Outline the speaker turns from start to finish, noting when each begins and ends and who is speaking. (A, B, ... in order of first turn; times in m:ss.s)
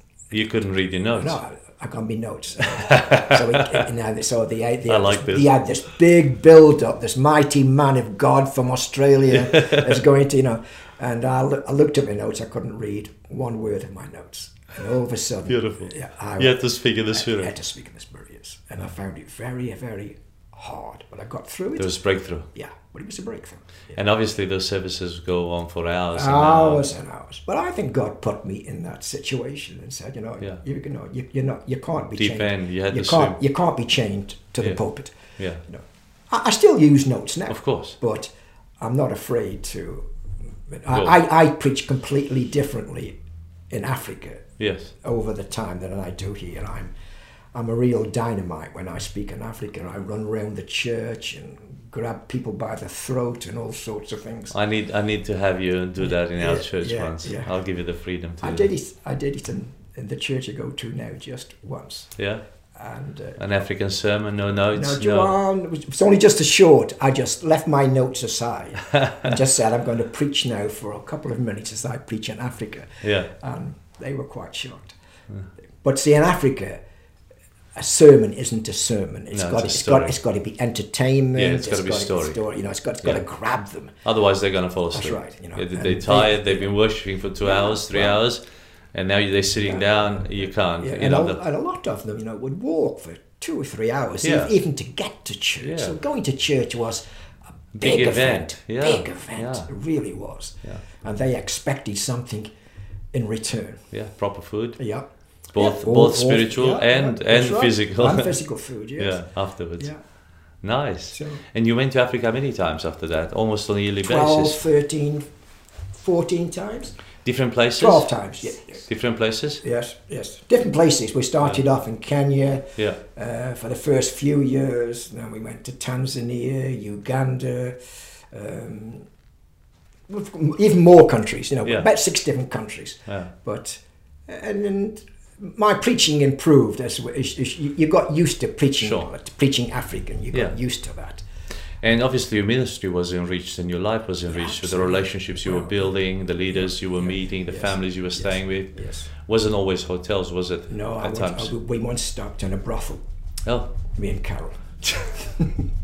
0:00.3-0:01.4 A
0:01.2-0:21.9 B
0:02.7-0:03.8 A
0:04.9-0:05.5 A
0:09.5-0:09.8 A
0:15.5-0:17.5 A
0:21.8-0:22.5 A
0:22.5-0:24.0 B
0:23.9-0:26.9 A
0:26.1-0:40.1 B
0:32.2-0:33.4 A
0:35.4-0:35.6 A
0:37.5-0:38.0 A
0:40.7-0:43.2 B
0:40.9-0:41.1 A
0:43.7-0:44.5 B
0:44.6-0:44.9 A
0:45.0-0:46.9 B
0:47.5-0:54.5 B
0:54.5-0:58.7 A
0:56.0-0:57.5 B
0:58.4-1:02.1 B
1:02.2-1:02.4 A
1:02.7-1:03.5 B
1:03.4-1:05.3 A
1:04.7-1:15.0 B
1:08.9-1:09.2 A
1:13.0-1:13.3 A
1:15.8-1:16.8 B
1:17.7-1:23.9 B
1:19.3-1:20.2 A
1:21.4-1:22.4 A
1:24.0-1:28.4 A
1:24.9-1:26.7 B
1:27.4-1:28.2 B
1:28.9-1:31.4 A
1:29.6-1:30.2 B
1:30.8-1:37.0 B
1:34.2-1:34.6 A
1:35.6-1:36.0 A
1:37.7-1:39.7 A
1:37.8-1:42.5 B
1:43.1-1:43.8 B
1:43.9-1:44.8 A
1:44.8-1:49.2 B
1:45.5-1:48.3 A
1:49.0-1:49.9 A
1:50.6-1:54.6 A
1:51.1-1:51.4 B
1:54.0-1:55.3 B
1:55.9-1:57.0 B
1:57.2-1:58.1 A
1:57.8-1:58.9 B
1:58.8-1:59.6 A
1:59.6-2:09.1 B
2:10.1-2:21.2 B
2:13.1-2:13.3 A
2:18.8-2:19.1 A
2:21.8-2:31.5 A
2:24.3-2:25.9 B
2:26.6-2:29.1 B
2:30.7-2:33.0 B
2:33.4-2:33.7 A
2:33.9-2:35.6 B